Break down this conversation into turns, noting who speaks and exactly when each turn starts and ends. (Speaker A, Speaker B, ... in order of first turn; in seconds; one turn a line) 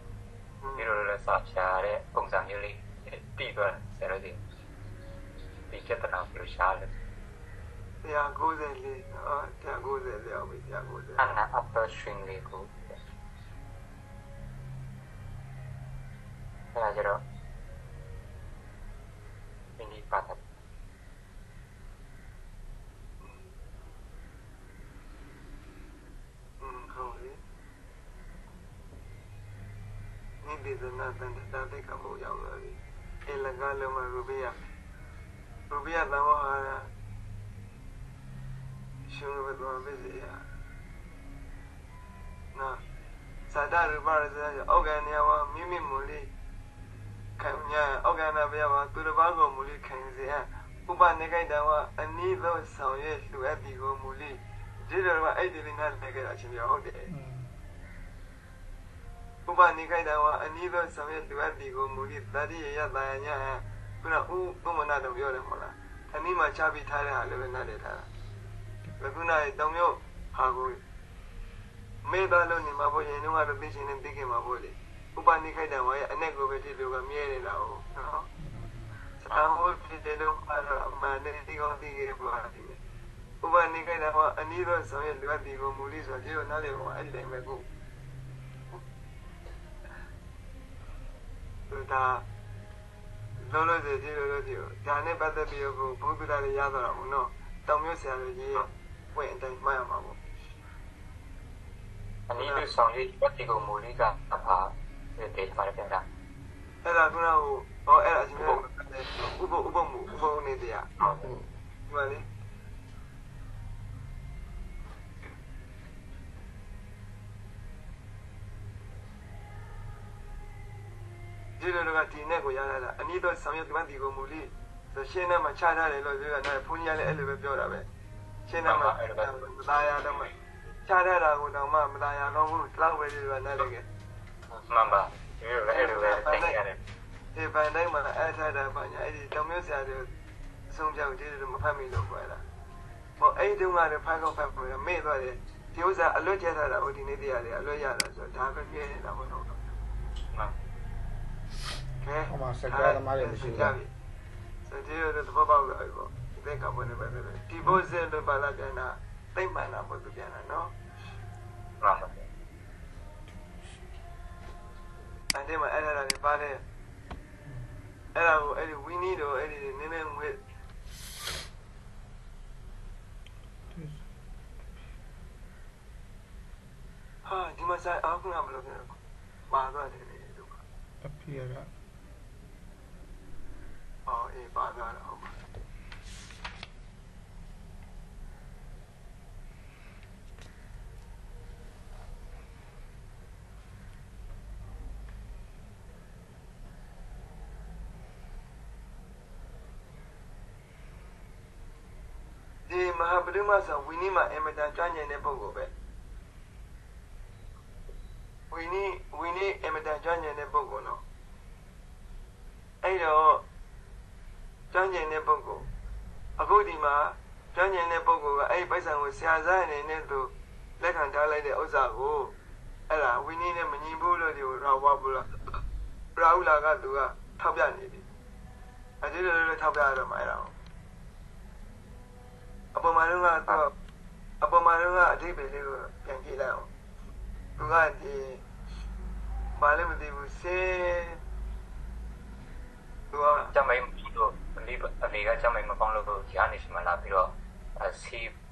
Speaker A: 0.6-0.9
Speaker B: 0.8-4.4
Speaker B: 5.7-6.9
Speaker A: 8.0-11.3
Speaker B: 11.2-13.0
Speaker B: 16.7-17.2
Speaker B: 19.8-20.4
Speaker A: 26.6-27.4
Speaker A: 30.4-34.6
Speaker A: 35.7-36.9
Speaker A: 39.1-40.4
Speaker A: 42.5-42.8
Speaker A: 43.5-46.3
Speaker A: 47.4-57.1
Speaker C: 57.1-57.5
Speaker A: 59.5-68.1
Speaker A: 69.0-70.8
Speaker A: 72.0-78.3
Speaker C: 78.4-78.9
Speaker A: 79.2-82.8
Speaker A: 83.4-87.6
Speaker A: 91.7-92.2
Speaker A: 93.4-100.2
Speaker B: 102.3-106.0
Speaker A: 102.4-102.6
Speaker A: 106.8-110.9
Speaker B: 111.0-111.3
Speaker C: 111.0-111.5
Speaker A: 111.9-112.2
Speaker A: 121.6-127.9
Speaker A: 128.5-130.3
Speaker B: 128.6-130.3
Speaker A: 130.9-133.8
Speaker B: 134.7-136.8
Speaker A: 135.7-136.6
Speaker A: 137.3-140.1
Speaker A: 140.7-142.4
Speaker A: 143.2-149.6
Speaker A: 152.0-153.9
Speaker C: 152.3-153.8
Speaker A: 154.7-160.7
Speaker B: 161.8-162.3
Speaker A: 165.3-166.6
Speaker A: 168.1-170.4
Speaker C: 173.7-174.0
Speaker A: 177.2-178.9
Speaker A: 179.5-180.6
Speaker C: 181.0-181.7
Speaker A: 184.1-185.4
Speaker A: 202.7-205.7
Speaker A: 208.5-211.0
Speaker A: 212.8-213.4
Speaker A: 214.7-215.7
Speaker A: 216.4-222.3
Speaker A: 222.9-225.6
Speaker A: 226.2-228.1
Speaker A: 229.0-230.5
Speaker A: 232.7-233.7
Speaker A: 234.4-236.7
Speaker A: 237.6-238.4
Speaker A: 239.6-241.2
Speaker A: 243.1-243.5
Speaker B: 243.5-248.3